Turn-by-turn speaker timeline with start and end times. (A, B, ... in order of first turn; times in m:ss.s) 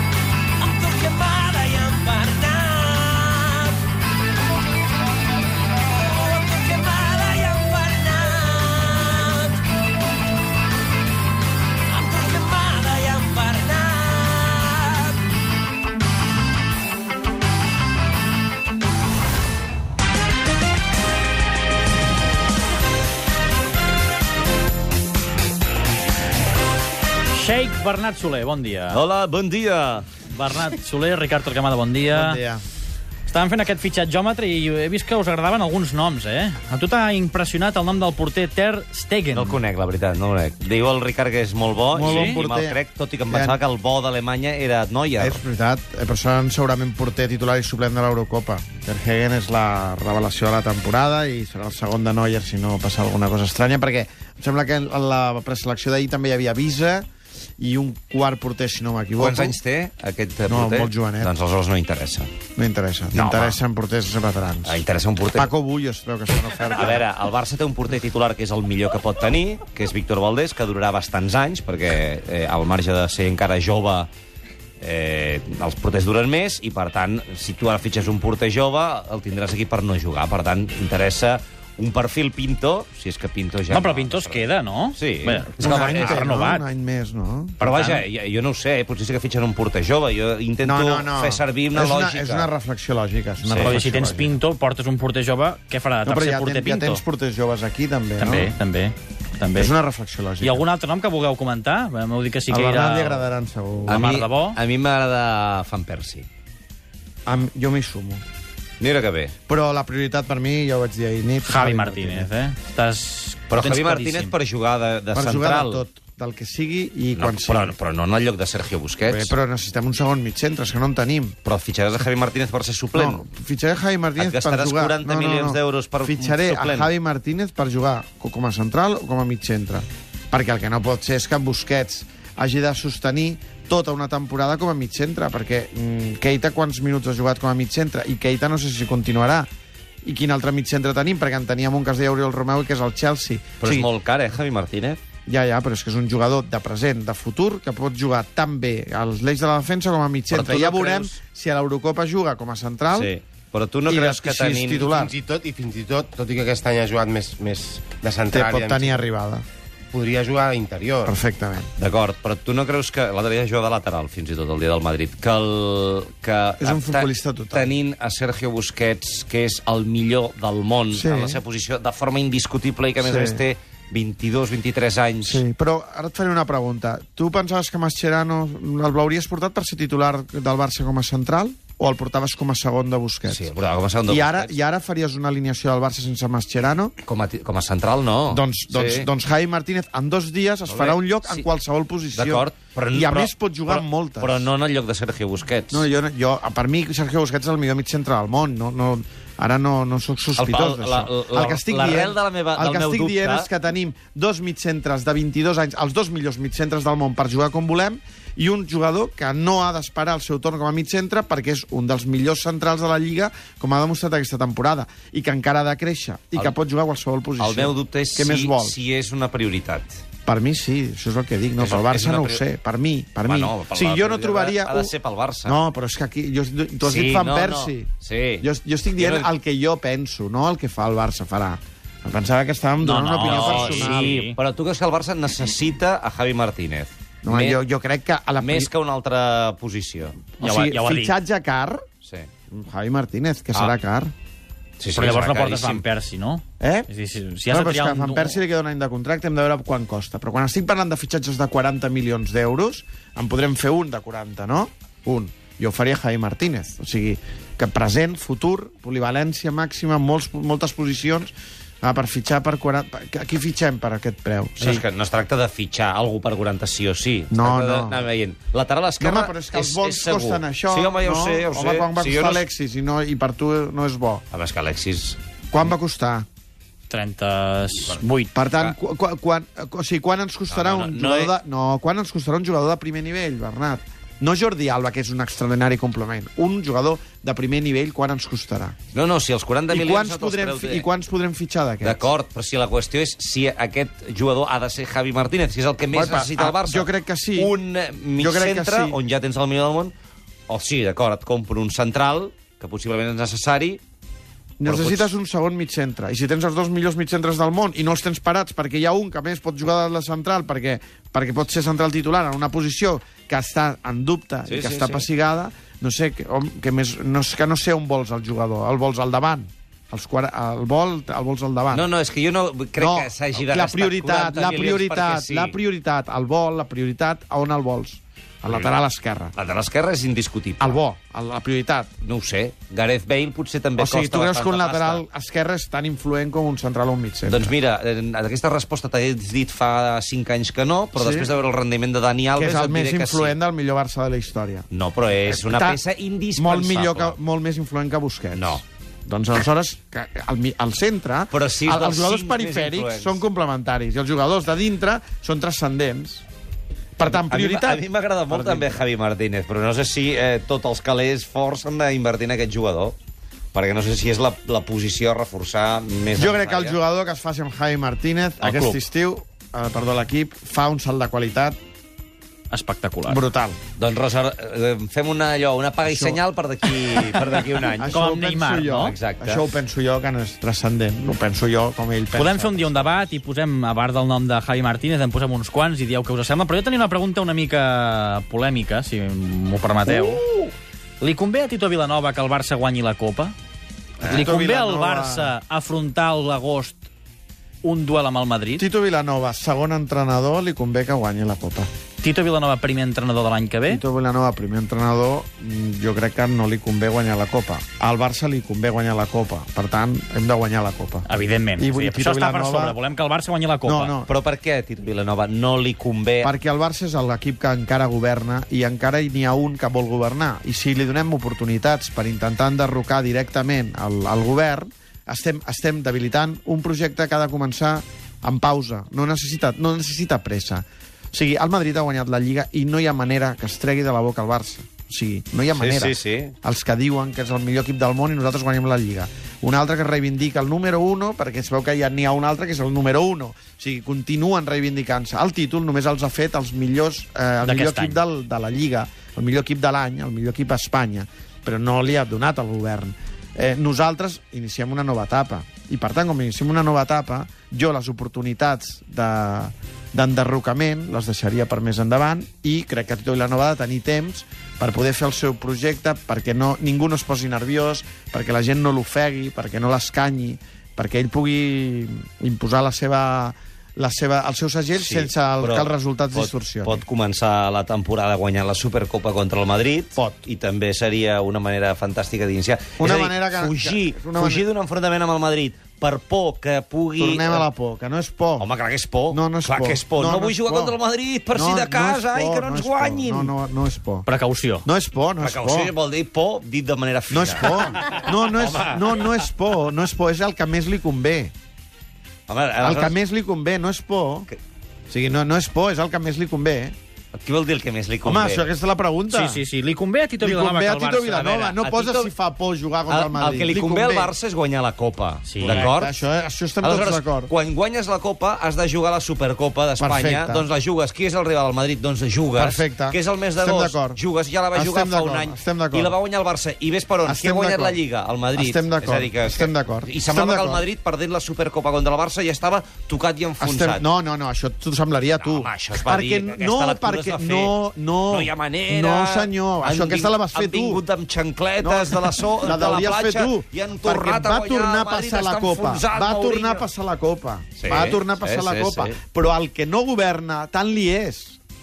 0:00.6-0:03.9 A
0:05.9-0:09.7 A
0:11.9-0:15.2 A
0:27.3-0:29.0 B
0:28.9-0:30.1 C
0:30.3-0:32.4 B
0:32.1-0:32.6 D
0:33.3-0:39.6 B
0:39.3-0:45.4 C
0:41.9-0:43.6 D
0:42.0-0:42.4 B
0:45.2-0:57.1 D
0:57.6-0:59.6 D
0:59.2-1:02.3 C
1:00.5-1:01.3 D
1:02.6-1:04.8 D
1:03.1-1:03.6 C
1:04.6-1:05.5 C
1:05.4-1:07.0 D
1:06.8-1:14.1 C
1:14.8-1:26.2 C
1:23.7-1:26.6 B
1:25.6-1:27.6 D
1:27.6-1:28.0 B
1:27.6-1:32.5 C
1:30.6-1:34.4 D
1:33.4-1:33.8 C
1:33.6-1:37.0 B
1:36.0-1:38.5 D
1:38.2-1:39.7 B
1:39.6-1:40.6 D
1:40.4-1:43.2 B
1:42.5-1:44.1 D
1:43.9-1:44.6 B
1:43.9-1:46.3 C
1:47.3-1:48.2 D
1:48.8-1:49.3 C
1:49.5-1:52.3 D
1:51.4-1:54.4 B
1:53.5-1:55.8 C
1:55.1-1:57.8 D
1:57.2-1:59.4 C
1:59.1-2:01.4 D
2:01.4-2:03.3 C
2:02.9-2:19.5 D
2:04.2-2:06.9 C
2:20.0-2:23.9 D
2:23.6-2:25.0 C
2:25.3-2:33.1 D
2:30.3-2:31.2 C
2:32.9-2:34.9 C
2:33.9-2:35.1 D
2:34.8-2:39.0 E
2:38.3-2:39.5 D
2:39.9-2:41.2 E
2:41.0-2:41.7 D
2:41.8-2:55.4 C
2:46.6-2:47.7 D
2:50.9-2:51.4 D
2:53.0-2:53.4 D
2:55.2-3:03.4 D
3:03.3-3:04.6 C
3:04.1-3:06.9 D
3:07.0-3:09.1 C
3:08.3-3:14.5 D
3:10.7-3:11.5 C
3:12.1-3:15.9 C
3:15.7-3:38.8 D
3:20.4-3:23.5 C
3:37.4-3:40.0 C
3:40.3-3:44.9 D
3:41.6-3:42.4 C
3:43.2-3:45.6 C
3:45.4-3:54.2 D
3:46.8-3:49.3 C
3:52.8-3:54.4 B
3:53.2-3:57.6 C
3:57.2-3:58.7 D
3:58.4-4:00.2 C
4:00.4-4:01.8 D
4:00.4-4:01.2 B
4:02.5-4:04.1 D
4:04.8-4:05.8 C
4:04.9-4:08.4 B
4:06.6-4:06.9 D
4:07.5-4:24.8 D
4:24.6-4:32.5 C
4:27.3-4:28.1 D
4:29.0-4:34.2 D
4:34.3-4:35.2 C
4:35.5-4:36.3 D
4:36.9-4:38.3 B
4:38.3-4:48.8 D
4:40.5-4:41.3 C
4:48.9-4:50.9 C
4:49.7-4:52.0 D
4:51.8-4:59.9 C
4:55.9-4:57.6 D
4:58.2-4:59.0 D
5:00.5-5:03.8 C
5:04.6-5:21.9 D
5:04.6-5:05.1 C
5:14.5-5:15.1 C
5:21.7-5:25.6 C
5:22.8-5:29.4 D
5:29.4-5:30.8 C
5:30.6-5:31.9 D
5:32.0-5:35.0 C
5:33.8-5:37.5 D
5:37.3-5:43.4 C
5:41.0-5:41.3 D
5:42.4-5:44.7 D
5:44.7-5:47.2 C
5:45.3-5:45.8 D
5:46.4-5:56.2 D
5:48.3-5:48.6 C
5:51.3-5:53.2 C
5:57.0-5:58.8 D
5:57.1-6:03.0 C
6:03.5-6:06.8 C
6:06.2-6:11.6 D
6:08.4-6:08.8 B
6:12.5-6:13.2 B
6:13.1-6:13.6 D
6:13.8-6:18.0 C
6:15.8-6:16.2 D
6:17.8-6:23.2 D
6:17.9-6:18.9 B
6:18.8-6:19.5 C
6:22.2-6:30.2 B
6:29.8-6:30.5 D
6:31.0-6:33.3 B
6:34.0-6:35.3 D
6:34.0-6:36.9 B
6:37.6-6:38.6 B
6:38.6-6:41.7 D
6:42.0-6:43.8 B
6:43.7-6:51.1 D
6:51.1-6:54.0 B
6:51.6-6:52.8 D
6:53.6-6:54.1 D
6:54.0-6:56.3 C
6:56.2-7:56.8 D
7:15.5-7:16.3 C
7:27.4-7:28.0 B
7:54.8-8:07.5 C
8:00.0-8:00.2 D
8:02.8-8:04.5 D
8:07.0-8:08.5 D
8:08.4-8:13.3 C
8:09.1-8:10.8 D
8:11.3-8:14.1 D
8:14.1-8:14.7 B
8:14.6-8:15.7 D
8:15.2-8:19.1 C
8:17.1-8:21.3 D
8:22.3-8:23.0 C
8:22.6-8:24.3 D
8:24.9-8:26.8 D
8:27.1-8:28.5 C
8:28.0-8:29.4 D
8:29.1-8:31.3 B
8:30.2-8:34.1 D
8:31.1-8:32.1 C
8:32.9-8:36.0 C
8:35.2-8:35.7 B
8:35.4-8:37.3 D
8:36.6-8:53.8 C
8:39.8-8:40.5 D
8:42.4-8:44.0 D
8:44.5-8:46.0 D
8:47.0-8:47.8 D
8:48.4-8:50.6 D
8:53.4-9:00.8 D
8:55.2-8:57.6 C
8:58.1-9:06.7 C
9:01.6-9:11.4 D
9:07.6-9:09.0 C